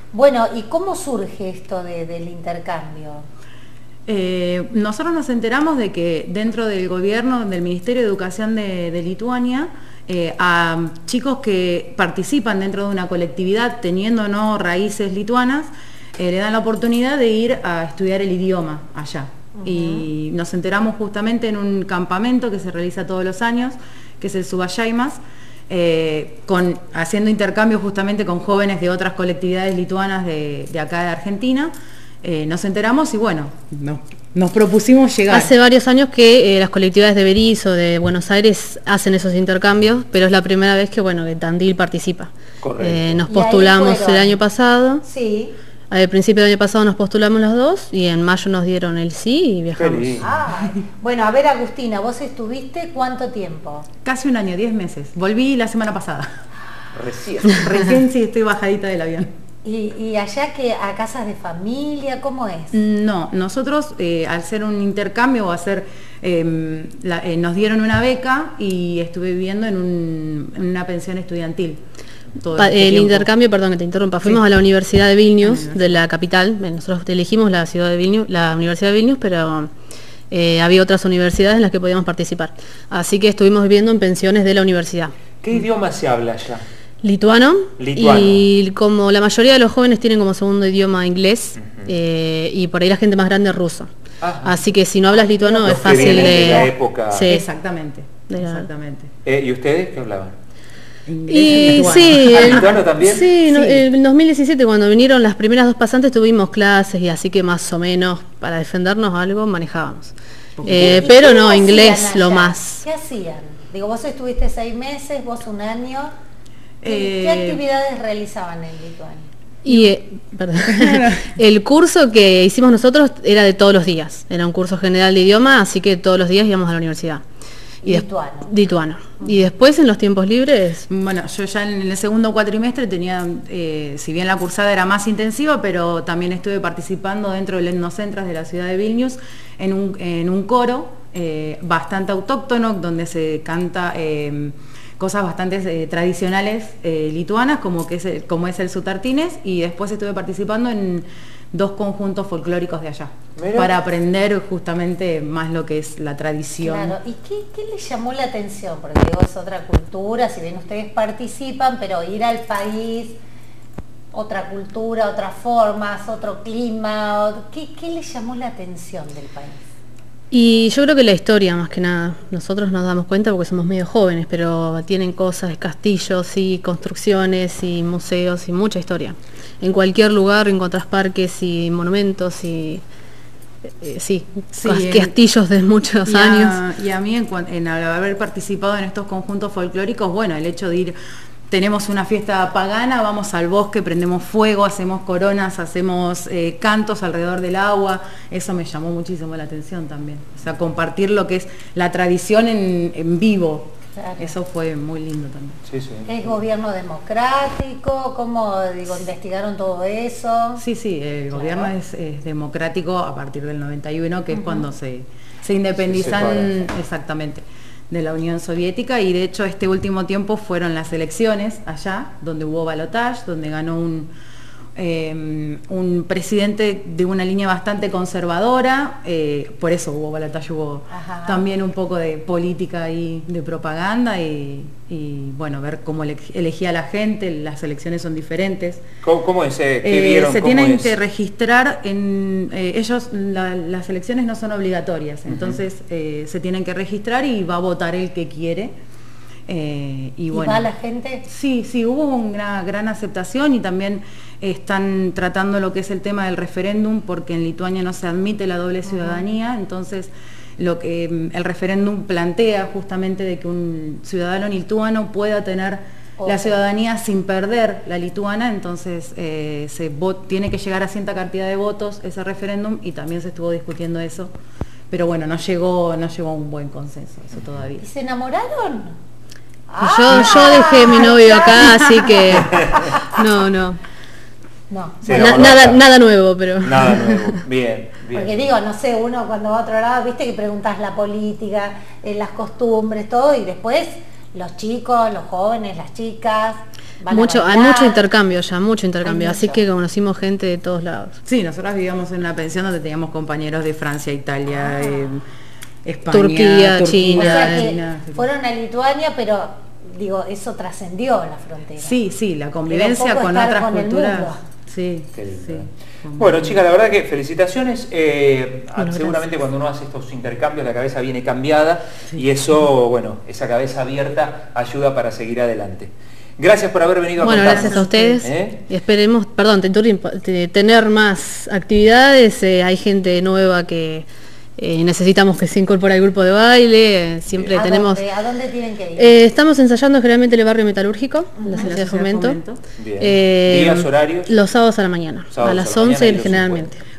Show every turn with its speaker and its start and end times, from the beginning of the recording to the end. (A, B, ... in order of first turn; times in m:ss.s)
0:00.1-0:03.3 A
0:04.1-0:31.7 B
0:19.6-0:20.0 A
0:32.2-0:35.5 B
0:35.3-0:45.0 C
0:42.6-0:43.3 D
0:43.3-0:44.4 A
0:45.0-0:45.6 A
0:45.9-0:50.2 C
0:49.8-0:50.3 D
0:50.2-0:53.9 A
0:54.0-0:56.3 B
0:56.9-0:57.8 D
0:57.5-0:59.3 B
0:59.6-1:02.8 A
1:02.7-1:11.8 B
1:12.4-1:13.3 B
1:12.6-1:19.7 C
1:15.4-1:16.0 B
1:20.3-1:25.2 C
1:25.4-1:26.6 D
1:27.0-1:33.9 C
1:27.8-1:28.4 D
1:34.2-1:34.6 D
1:34.4-1:37.4 C
1:35.2-1:36.8 B
1:35.6-1:37.3 D
1:37.3-1:39.1 B
1:38.3-1:38.7 C
1:39.2-1:40.3 D
1:41.1-1:42.8 B
1:41.3-1:52.8 C
1:41.5-1:43.2 D
1:43.4-1:43.8 B
1:50.6-1:51.2 B
1:50.8-1:56.1 A
1:56.8-1:57.6 B
1:56.8-1:59.3 A
1:59.6-2:07.2 C
2:00.9-2:01.2 B
2:07.8-2:08.5 A
2:07.8-2:10.9 C
2:10.9-2:37.0 B
2:33.4-2:33.7 D
2:36.6-2:43.2 A
2:44.1-2:49.6 A
2:50.3-3:02.8 C
3:03.8-3:06.6 C
3:04.5-3:05.1 B
3:06.0-3:11.0 B
3:11.5-3:25.6 B
3:23.9-3:24.4 A
3:25.7-3:26.1 D
3:26.0-3:30.6 A
3:30.6-3:44.1 B
3:31.3-3:31.7 A
3:34.3-3:34.7 A
3:35.8-3:36.5 D
3:44.8-3:58.8 B
3:50.9-3:51.4 A
3:59.0-4:00.9 D
3:59.8-4:08.8 B
4:05.3-4:05.6 D
4:09.5-4:10.7 B
4:10.3-4:11.3 A
4:11.3-4:34.3 B
4:26.2-4:26.6 A
4:34.9-4:37.9 B
4:37.8-4:39.0 A
4:39.7-4:43.2 A
4:39.8-4:43.8 C
4:40.1-4:41.3 B
4:44.7-4:45.6 A
4:45.0-4:45.8 D
4:45.1-4:47.4 C
4:46.6-4:48.5 D
4:48.1-4:58.0 A
4:57.1-5:01.2 C
4:59.0-4:59.6 A
5:01.2-5:05.2 B
5:05.8-5:08.3 B
5:06.1-5:07.7 C
5:07.2-5:12.0 A
5:11.8-5:16.6 B
5:12.7-5:14.4 A
5:15.2-5:15.6 D
5:16.2-5:28.6 D
5:18.8-5:19.3 C
5:27.2-5:34.1 C
5:27.2-5:28.2 B
5:34.6-5:38.0 C
5:37.3-5:37.6 D
5:37.5-5:39.2 A
5:39.0-5:42.4 C
5:41.4-5:41.7 A
5:41.5-5:42.6 B
5:42.8-5:44.3 D
5:43.0-5:46.8 C
5:45.3-5:46.7 D